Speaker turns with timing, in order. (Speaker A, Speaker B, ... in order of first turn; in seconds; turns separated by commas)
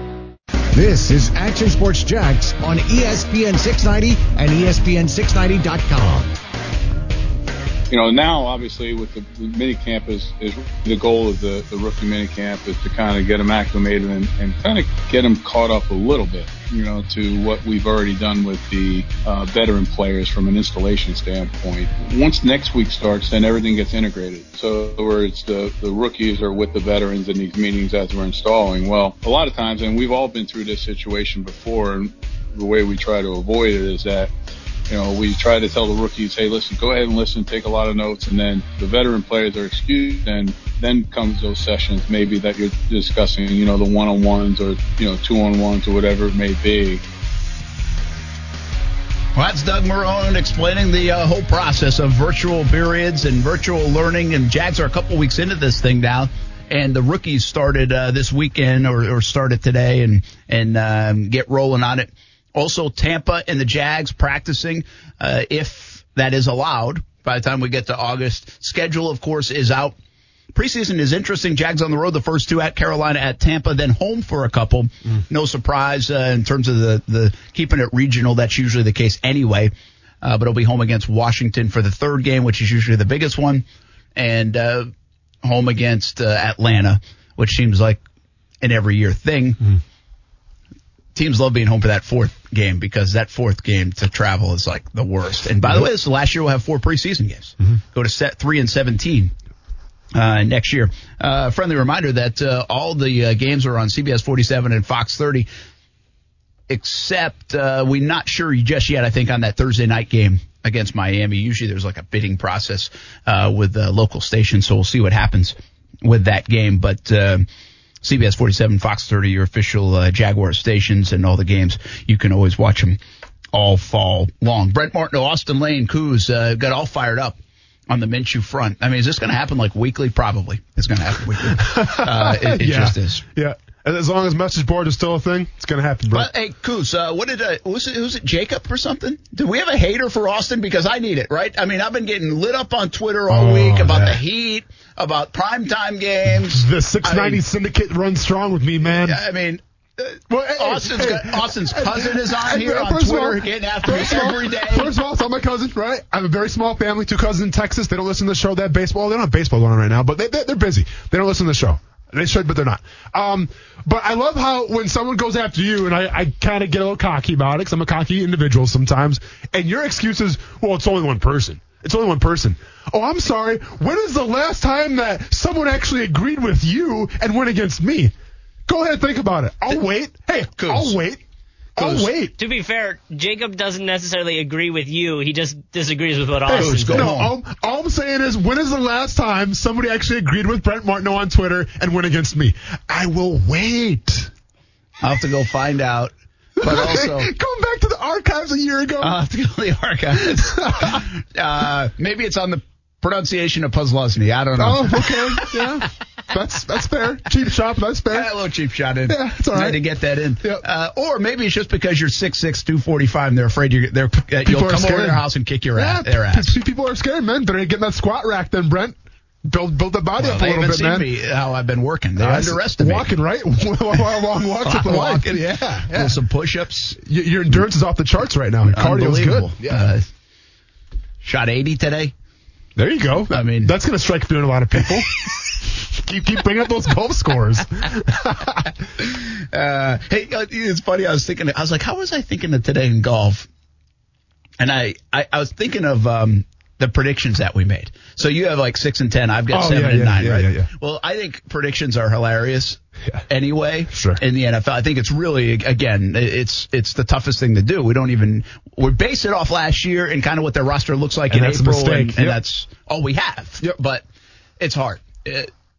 Speaker A: 0.7-6.3, Speaker B: 7.9-34.3, Speaker B: 34.9-47.0, Speaker C: 49.4-70.0, Speaker C: 70.5-83.7, Speaker C: 84.2-84.9, Speaker C: 85.4-88.0, Speaker C: 88.6-89.7, Speaker C: 91.2-99.3, Speaker C: 100.1-105.5, Speaker C: 106.7-117.5, Speaker C: 118.0-123.0, Speaker C: 123.5-127.4, Speaker C: 127.9-133.2, Speaker D: 131.4-136.3, Speaker C: 136.1-147.4, Speaker D: 143.3-144.2, Speaker D: 146.3-149.2, Speaker C: 149.0-154.9, Speaker D: 150.3-178.1, Speaker D: 178.7-181.2, Speaker C: 180.6-181.0, Speaker D: 181.8-182.3, Speaker C: 181.8-182.1, Speaker E: 182.4-187.1, Speaker D: 186.5-194.3, Speaker C: 186.6-187.3, Speaker C: 195.0-197.3, Speaker D: 196.6-199.2, Speaker C: 199.0-205.8, Speaker D: 200.3-201.1, Speaker D: 204.6-208.3, Speaker C: 208.1-216.6, Speaker D: 209.1-209.8, Speaker D: 214.5-215.2, Speaker D: 215.8-221.1, Speaker C: 220.2-223.1, Speaker D: 222.2-226.2, Speaker C: 224.6-227.0, Speaker D: 227.0-229.8, Speaker C: 228.7-230.1, Speaker C: 231.2-232.1, Speaker D: 232.8-238.7, Speaker C: 233.3-233.7, Speaker C: 239.0-243.5, Speaker C: 244.6-264.0, Speaker D: 249.5-250.7, Speaker D: 253.9-254.2, Speaker D: 261.3-262.4, Speaker C: 264.6-265.5